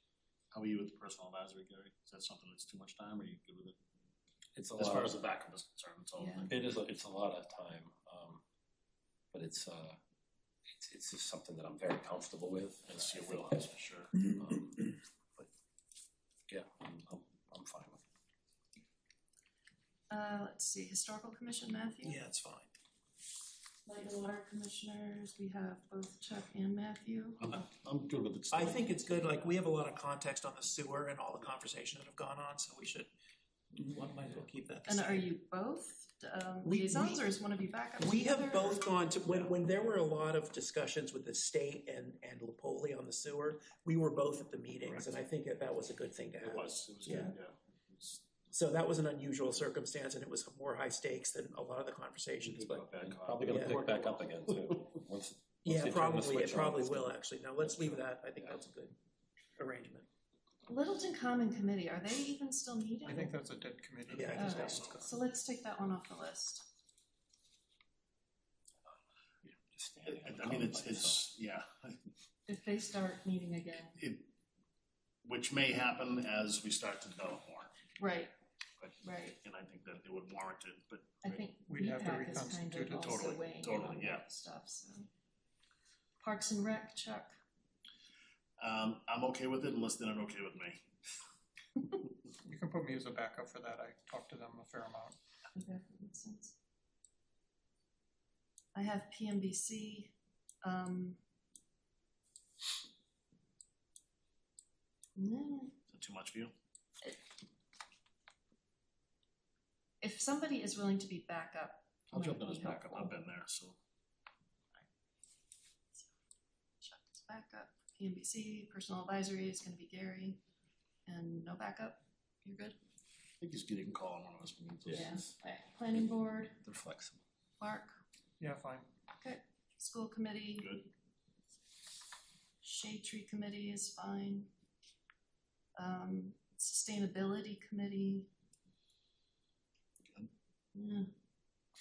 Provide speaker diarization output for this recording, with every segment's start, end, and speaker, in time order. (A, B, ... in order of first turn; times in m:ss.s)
0:00.5-0:03.8 A
0:04.6-0:05.1 B
0:04.8-0:06.6 A
0:06.2-0:06.5 C
0:06.5-0:08.4 B
0:09.3-0:10.0 B
0:10.7-0:13.4 B
0:12.9-0:14.2 A
0:14.3-0:15.5 B
0:16.5-0:18.0 B
0:20.1-0:22.2 C
0:22.0-0:22.7 D
0:23.9-0:27.4 C
0:27.4-0:28.9 A
0:28.5-0:33.1 D
0:33.7-0:35.3 D
0:34.9-0:38.8 C
0:36.6-0:37.3 D
0:38.0-0:47.4 D
0:46.4-0:48.3 A
0:48.5-0:52.8 D
0:52.4-0:54.4 A
0:53.0-0:58.0 B
0:53.5-0:53.8 D
0:55.6-0:58.9 D
0:59.6-1:00.1 D
1:00.7-1:03.4 C
1:03.0-1:04.6 E
1:04.1-1:05.0 A
1:04.1-1:05.1 D
1:04.3-1:06.7 C
1:09.4-1:11.3 B
1:10.0-1:12.0 A
1:12.5-1:14.0 C
1:14.0-1:14.3 A
1:15.2-1:17.7 A
1:18.0-1:18.3 C
1:18.8-1:21.4 A
1:19.0-1:19.4 C
1:21.2-1:25.1 C
1:21.7-1:23.2 E
1:23.0-1:24.2 A
1:26.2-1:27.3 C
1:28.6-1:30.8 A
1:32.4-1:35.2 E
1:35.6-1:36.6 C
1:38.7-1:41.2 C
1:45.2-1:45.8 C
1:45.9-1:46.5 A
1:50.0-1:53.2 C
1:52.1-1:53.8 A
1:56.8-2:00.4 C
2:01.1-2:02.8 C
2:03.4-2:05.2 A
2:04.9-2:06.6 C
2:06.6-2:07.2 B
2:07.6-2:07.9 C
2:08.4-2:08.9 E
2:09.2-2:10.8 C
2:10.6-2:10.9 A
2:12.6-2:14.5 C
2:15.8-2:18.3 C
2:20.0-2:20.3 A
2:20.8-2:21.1 C